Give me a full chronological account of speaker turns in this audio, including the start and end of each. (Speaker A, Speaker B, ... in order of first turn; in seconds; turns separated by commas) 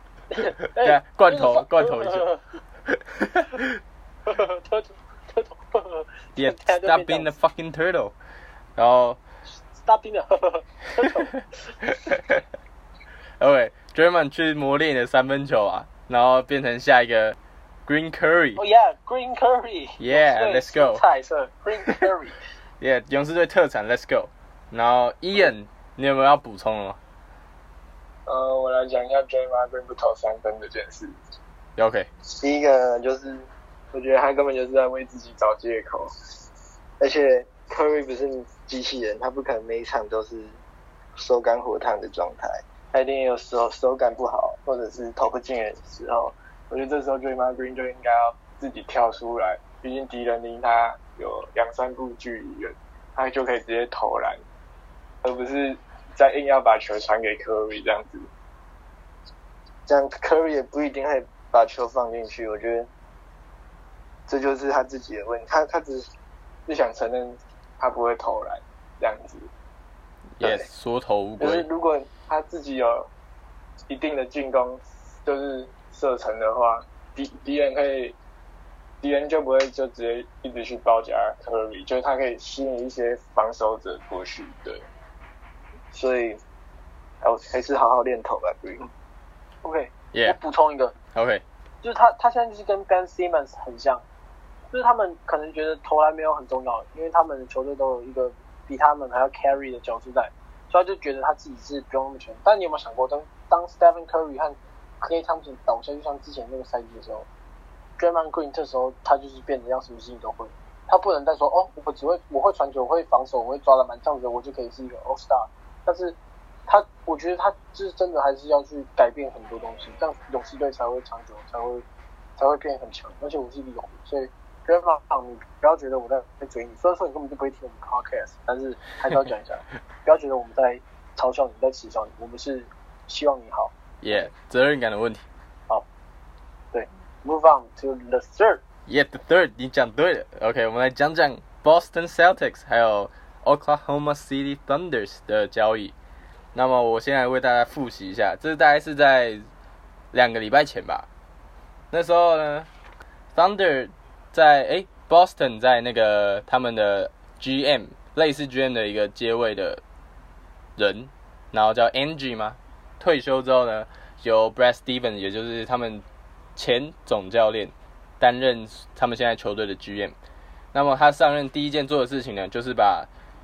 Speaker A: 0.3-2.4, Speaker B: 0.8-2.2, Speaker B: 2.9-3.8, Speaker A: 4.3-7.3, Speaker B: 6.3-8.1, Speaker B: 8.8-9.2, Speaker A: 9.8-11.9, Speaker B: 13.4-17.4, Speaker B: 17.9-18.6, Speaker A: 18.6-22.4, Speaker B: 20.0-21.0, Speaker B: 22.8-27.0, Speaker C: 28.3-31.1, Speaker B: 31.8-32.1, Speaker D: 32.3-34.9, Speaker C: 34.7-36.1, Speaker D: 37.0-40.6, Speaker D: 41.2-46.3, Speaker C: 46.7-54.4, Speaker C: 55.2-58.3, Speaker D: 59.9-62.9, Speaker D: 64.3-66.1, Speaker C: 66.7-69.5, Speaker B: 70.4-71.7, Speaker D: 70.4-70.7, Speaker D: 71.4-72.1, Speaker C: 72.1-73.1, Speaker C: 73.9-78.2, Speaker C: 79.0-84.8, Speaker D: 85.9-86.4, Speaker D: 87.2-88.9, Speaker A: 89.6-90.9, Speaker B: 90.1-90.4, Speaker B: 91.1-91.4, Speaker A: 91.8-94.0, Speaker A: 94.7-107.3, Speaker A: 108.0-121.8, Speaker A: 122.4-134.3, Speaker B: 134.0-135.2, Speaker A: 136.7-138.6, Speaker B: 138.9-145.9, Speaker B: 146.5-149.5, Speaker B: 150.1-151.1, Speaker B: 151.9-152.7, Speaker B: 153.3-159.8, Speaker B: 160.8-166.0, Speaker B: 166.6-170.2, Speaker B: 170.7-173.1